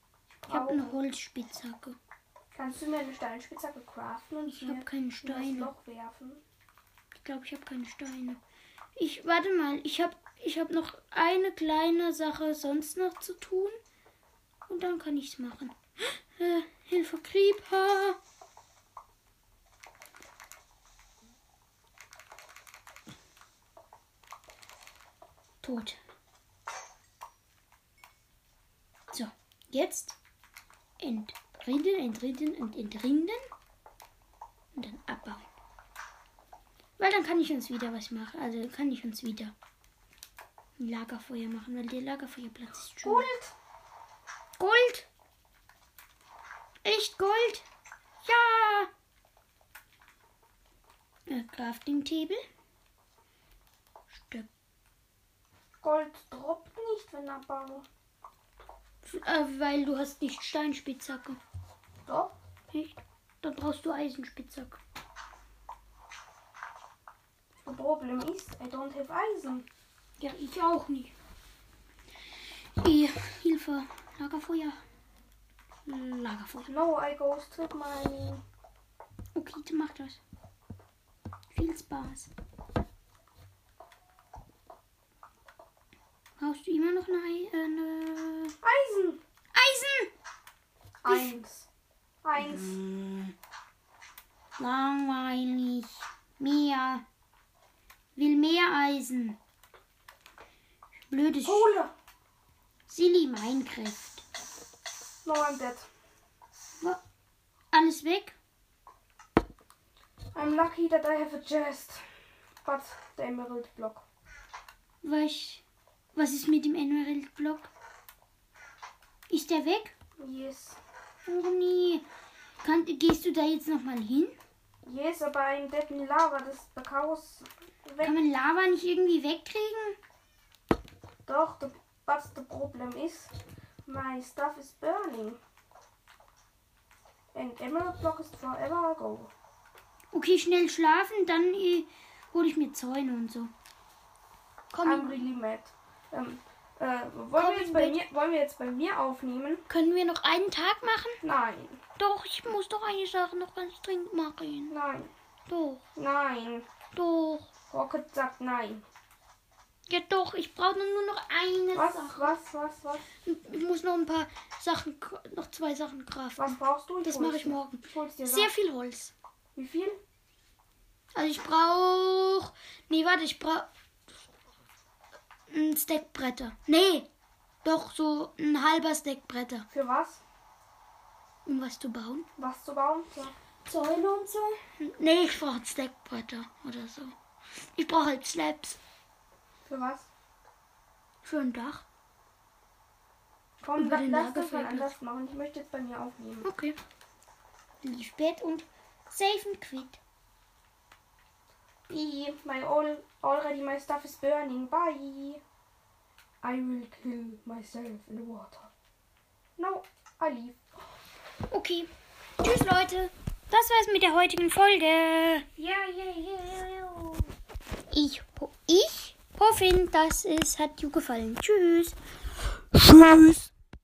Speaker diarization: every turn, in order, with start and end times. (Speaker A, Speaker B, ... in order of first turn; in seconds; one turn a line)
Speaker A: 0.3-1.0
Speaker B: 0.5-2.0
Speaker A: 2.5-6.4
Speaker B: 4.5-5.7
Speaker B: 7.1-8.4
Speaker B: 9.0-13.8
Speaker B: 14.7-18.2
Speaker B: 25.6-26.0
Speaker B: 29.1-30.2
Speaker B: 31.0-33.4
Speaker B: 34.7-35.5
Speaker B: 37.0-39.5
Speaker B: 40.8-43.3
Speaker A: 43.0-43.5
Speaker B: 44.6-45.1
Speaker B: 46.8-47.6
Speaker B: 48.2-48.9
Speaker B: 51.3-52.4
Speaker B: 54.1-54.5
Speaker A: 55.8-57.9
Speaker B: 59.0-61.4
Speaker A: 62.0-62.3
Speaker B: 62.7-64.8
Speaker A: 67.6-69.7
Speaker B: 70.2-71.1
Speaker B: 72.8-74.8
Speaker B: 75.9-76.7
Speaker A: 76.7-78.4
Speaker B: 79.3-80.2
Speaker B: 81.5-82.3
Speaker B: 86.4-88.5
Speaker A: 88.6-89.2
Speaker B: 89.5-90.1
Speaker A: 91.0-91.7
Speaker B: 91.1-91.3
Speaker A: 92.2-92.8
Speaker B: 92.4-93.3
Speaker B: 94.6-97.0
Speaker B: 98.2-99.4
Speaker B: 101.1-101.7
Speaker A: 101.4-101.9
Speaker B: 102.9-104.2
Speaker A: 105.2-105.9
Speaker B: 107.7-108.3
Speaker A: 110.3-112.0
Speaker A: 112.6-114.0
Speaker B: 115.0-115.6
Speaker B: 116.1-117.7
Speaker B: 119.3-119.9
Speaker A: 120.2-120.8
Speaker B: 121.3-122.0
Speaker B: 122.6-124.4
Speaker A: 124.8-128.2
Speaker B: 128.0-130.0
Speaker A: 131.2-133.3
Speaker A: 133.8-135.4
Speaker A: 137.3-139.3
Speaker B: 140.1-143.5
Speaker B: 144.7-145.2
Speaker A: 144.8-149.7
Speaker B: 147.4-148.0
Speaker B: 149.7-151.2
Speaker A: 151.2-151.8
Speaker B: 152.0-154.7
Speaker A: 154.7-155.1
Speaker B: 155.5-155.8
Speaker A: 155.9-156.7
Speaker B: 156.9-157.5
Speaker A: 157.7-158.8
Speaker B: 159.9-162.3
Speaker A: 161.7-163.1
Speaker B: 163.2-169.1
Speaker A: 166.4-168.5
Speaker A: 169.5-170.0
Speaker B: 171.1-173.7
Speaker B: 175.5-177.1
Speaker B: 177.6-179.7
Speaker A: 179.7-180.2
Speaker B: 181.4-182.3
Speaker A: 182.4-183.3
Speaker B: 183.7-187.1
Speaker B: 187.8-188.8
Speaker A: 189.7-190.1
Speaker B: 191.2-191.8
Speaker A: 193.6-196.5
Speaker B: 193.8-194.9
Speaker B: 196.4-196.8
Speaker B: 197.8-200.0
Speaker A: 201.9-205.4
Speaker A: 206.4-208.7
Speaker A: 209.6-210.6
Speaker B: 211.5-211.9
Speaker B: 212.4-215.5
Speaker A: 215.6-217.3
Speaker B: 217.9-221.9
Speaker B: 222.7-223.5